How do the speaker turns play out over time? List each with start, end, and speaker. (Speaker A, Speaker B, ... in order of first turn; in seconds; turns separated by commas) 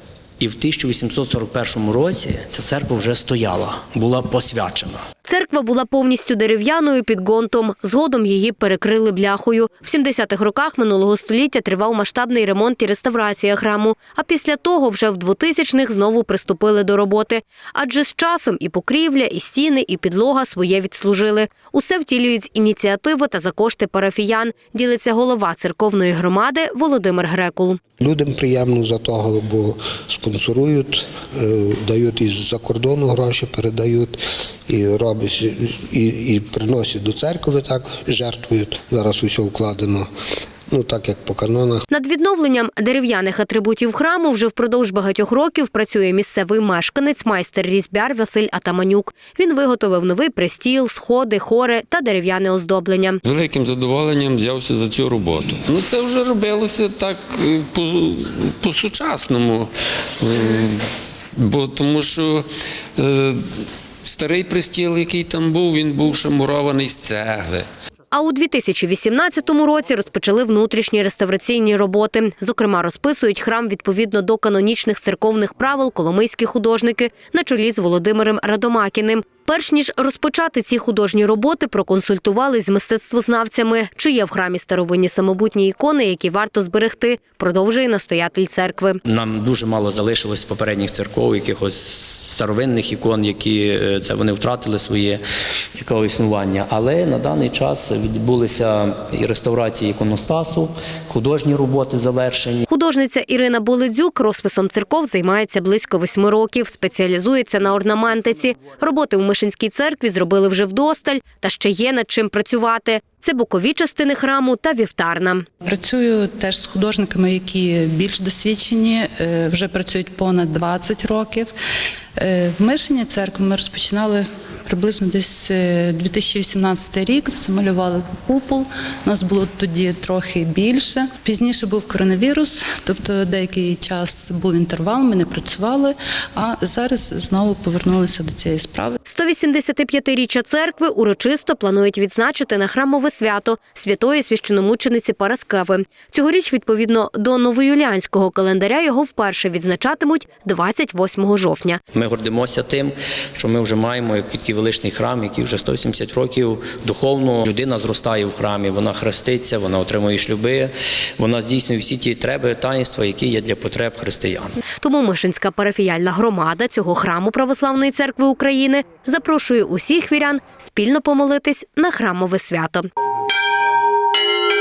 Speaker A: 0.4-5.0, Speaker B: 5.2-27.8, Speaker C: 28.0-40.1, Speaker C: 40.7-41.9, Speaker B: 41.9-53.2, Speaker D: 53.2-59.7, Speaker D: 60.2-60.8, Speaker D: 61.4-62.5, Speaker D: 63.0-63.4, Speaker D: 64.0-67.7, Speaker B: 68.1-89.0, Speaker A: 89.0-95.2, Speaker A: 95.8-102.7, Speaker B: 102.7-115.5, Speaker E: 115.6-121.5, Speaker E: 122.2-139.0, Speaker B: 139.1-151.8, Speaker A: 151.9-164.6, Speaker B: 164.8-172.9